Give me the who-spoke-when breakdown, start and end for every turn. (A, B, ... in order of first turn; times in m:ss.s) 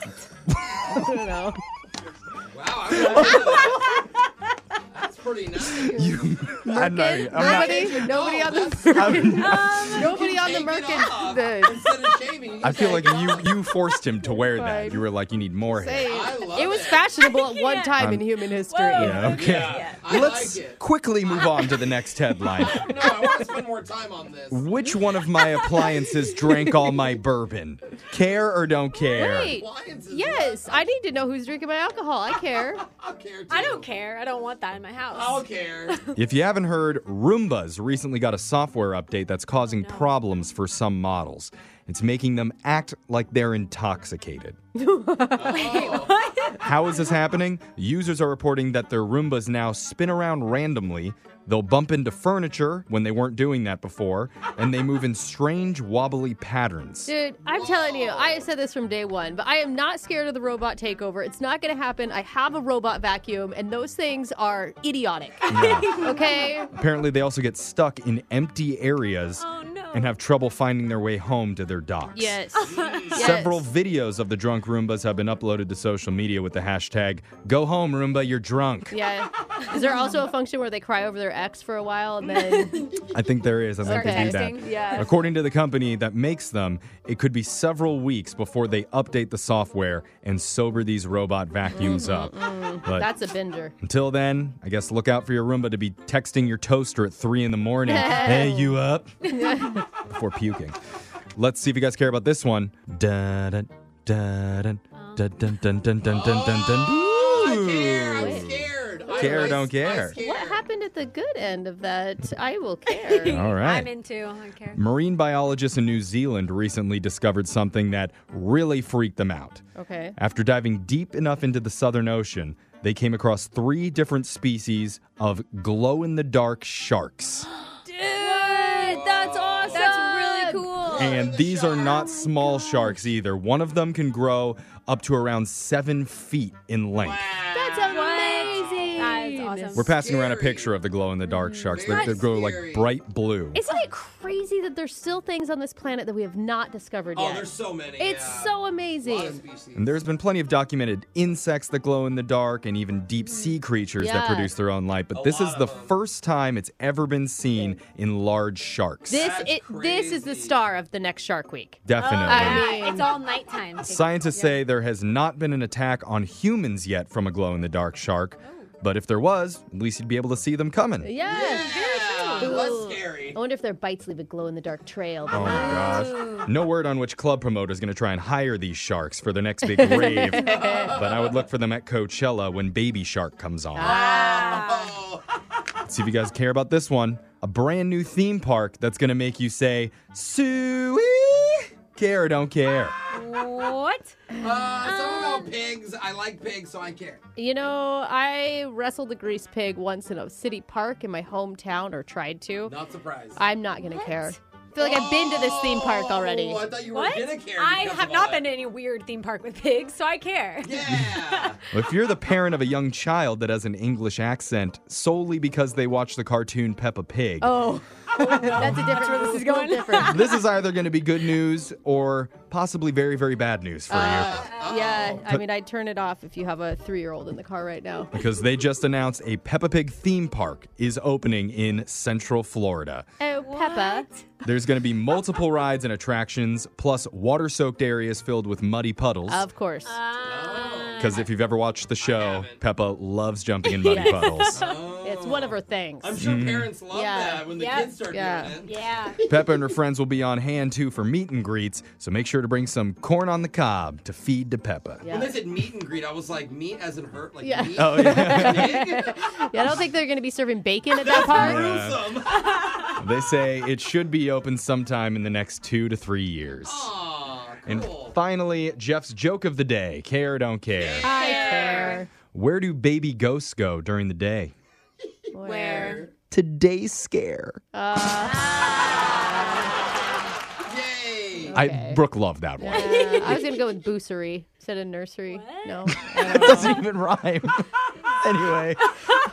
0:00.8-0:01.6 A
0:02.5-0:04.0 B
0:03.1-0:03.6 A
0:04.9-0:06.0 B
0:05.8-0:12.1 A
0:05.8-0:08.1 C
0:07.3-0:09.4 B
0:08.9-0:10.1 C
0:09.3-0:10.1 D
0:10.0-0:13.5 B
0:12.6-0:16.2 C
0:14.3-0:15.0 A
0:15.7-0:19.5 A
0:16.1-0:17.1 B
0:17.2-0:18.1 D
0:18.0-0:18.2 C
0:18.7-0:20.2 D
0:18.9-0:22.8 C
0:19.3-0:20.8 B
0:22.6-0:24.7 B
0:24.5-0:29.6 C
0:29.2-0:32.8 A
0:29.4-0:30.8 B
0:32.8-0:33.9 B
0:33.5-0:36.2 D
0:35.1-0:36.0 B
0:36.2-0:44.6 C
0:39.7-0:40.1 D
0:44.8-0:45.9 A
0:45.4-0:46.1 B
0:45.5-0:46.8 D
0:46.6-0:57.1 C
0:57.1-1:06.7 A
0:57.5-0:58.4 B
1:05.5-1:06.0 C
1:05.5-1:06.5 D
1:06.7-1:12.4 C
1:09.4-1:10.1 D
1:12.1-1:13.7 A
1:12.6-1:13.1 D
1:12.6-1:13.2 B
1:13.1-1:19.0 C
1:18.9-1:23.0 A
1:22.6-1:23.0 D
1:23.1-1:33.1 C
1:23.8-1:25.1 D
1:23.8-1:25.1 A
1:31.7-1:33.8 A
1:33.8-1:39.3 C
1:37.9-1:38.8 A
1:39.4-1:39.9 A
1:40.0-1:40.8 C
1:41.4-1:48.5 C
1:45.0-1:45.2 D
1:46.0-1:50.6 B
1:48.1-1:48.5 A
1:49.1-1:49.6 A
1:49.1-1:50.2 C
1:50.2-1:53.5 A
1:52.9-1:54.8 D
1:53.2-1:53.9 C
1:54.7-1:59.6 C
1:59.8-2:00.2 A
2:00.2-2:07.5 C
2:07.9-2:11.2 A
2:08.2-2:11.2 D
2:08.6-2:09.9 B
2:10.8-2:12.1 B
2:10.9-2:17.2 C
2:11.8-2:13.0 A
2:17.0-2:19.2 B
2:17.5-2:19.9 A
2:17.9-2:19.9 D
2:19.8-2:23.6 C
2:19.9-2:20.8 B
2:21.7-2:22.9 B
2:21.8-2:22.2 D
2:23.5-2:29.4 A
2:27.2-2:30.0 B
2:29.8-2:39.2 C
2:34.0-2:34.5 A
2:35.1-2:36.0 B
2:39.1-2:43.2 A
2:39.2-2:40.6 B
2:41.8-2:42.8 C
2:42.0-2:44.2 D
2:43.8-2:51.1 C
2:48.4-2:48.7 D
2:51.0-2:51.8 A
2:51.2-2:53.4 B
2:51.4-2:52.6 D
2:52.4-2:56.2 A
2:55.3-3:04.0 C
2:55.4-2:56.5 D
2:59.8-3:00.9 A
3:00.4-3:01.4 B
3:03.8-3:04.5 A
3:03.8-3:05.2 B
3:03.8-3:04.9 D
3:05.9-3:13.0 C
3:13.1-3:14.2 D
3:14.4-3:17.2 B
3:15.0-3:15.5 D
3:17.4-3:22.7 A
3:22.6-3:23.4 B
3:23.4-3:26.7 A
3:23.8-3:24.4 D
3:24.8-3:28.5 B
3:26.9-3:31.6 D
3:30.6-3:31.6 B
3:31.7-3:37.6 C
3:37.4-3:40.4 A
3:38.2-3:40.3 D
3:40.0-3:44.5 C
3:43.9-3:48.1 A
3:44.0-3:45.2 B
3:44.5-3:44.8 D
3:48.1-3:53.1 C
3:53.2-3:54.1 A
3:53.4-3:54.2 D
3:54.4-3:59.5 C
3:59.3-4:00.0 A
3:59.8-4:01.3 D
4:00.2-4:01.3 B
4:01.0-4:04.6 C
4:02.0-4:02.6 B
4:03.6-4:04.8 D
4:03.9-4:06.2 A
4:04.5-4:08.8 B
4:06.2-4:06.7 C
4:06.9-4:07.5 A
4:07.5-4:08.0 D
4:08.1-4:08.6 A
4:08.6-4:09.2 D
4:09.2-4:15.1 C
4:15.0-4:15.4 A
4:15.1-4:19.4 B
4:17.4-4:21.8 A
4:17.8-4:18.8 C
4:20.9-4:22.9 B
4:21.2-4:22.1 C
4:22.9-4:26.9 C
4:26.6-4:28.2 B
4:27.7-4:31.2 C
4:30.8-4:32.0 B
4:31.0-4:32.1 A
4:32.3-4:34.5 C
4:35.3-4:36.1 A
4:35.4-4:36.1 D
4:35.7-4:36.1 B
4:36.3-4:37.6 C
4:37.7-4:39.7 A
4:38.4-4:39.3 D
4:40.7-4:41.6 B
4:41.4-4:42.0 A
4:41.5-4:43.4 C
4:42.6-4:46.8 A
4:42.8-4:43.5 D
4:45.3-4:46.7 D
4:46.1-4:49.1 C